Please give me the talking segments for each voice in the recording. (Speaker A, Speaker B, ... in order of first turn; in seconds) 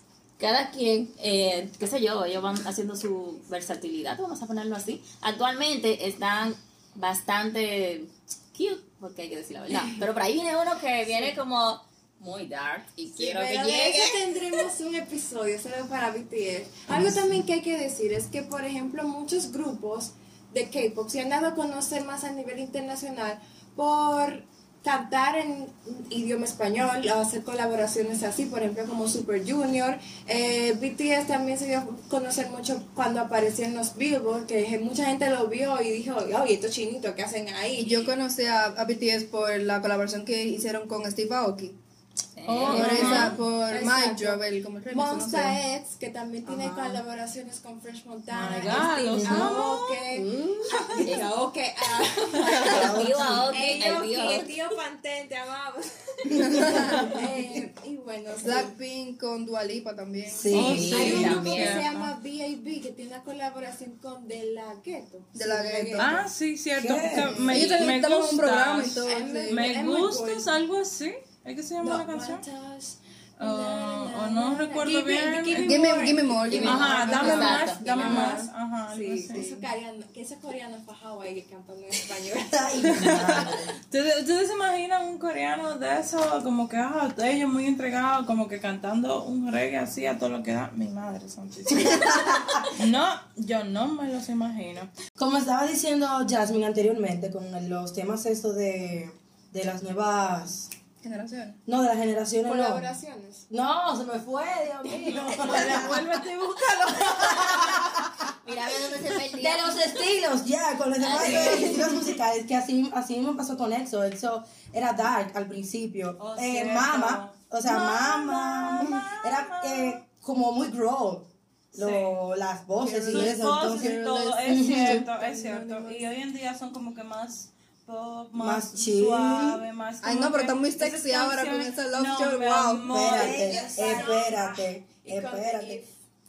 Speaker A: 0.4-14.3, 42.4-43.3, 51.0-51.2, 52.6-54.5, 60.5-61.8, 76.5-77.9, 108.4-109.8, 111.0-111.9
Speaker B: 13.2-38.1, 42.8-58.7, 60.9-66.2, 69.0-70.5, 71.8-82.9, 102.4-103.5, 133.1-136.0
Speaker C: 16.9-17.4, 49.1-49.6, 50.1-51.1, 52.6-53.5, 60.3-61.3, 66.8-67.7, 82.5-83.8, 91.8-92.5, 95.2-100.7, 101.7-102.8, 103.5-106.1, 106.9-108.1, 109.3-125.1, 128.4-129.6, 132.9-135.8
Speaker D: 37.8-41.8, 42.7-45.6, 46.5-47.0, 56.4-57.1, 58.4-60.9, 65.3-66.2, 67.5-69.5, 75.6-78.5, 79.3-79.7, 101.0-101.6, 122.8-126.0, 130.0-133.2
Speaker E: 42.5-43.4, 48.3-50.1, 60.5-62.1, 66.0-72.5, 73.4-75.9, 76.5-79.5, 82.9-94.9, 105.0-108.1, 116.2-120.0, 121.8-122.2, 123.1-134.0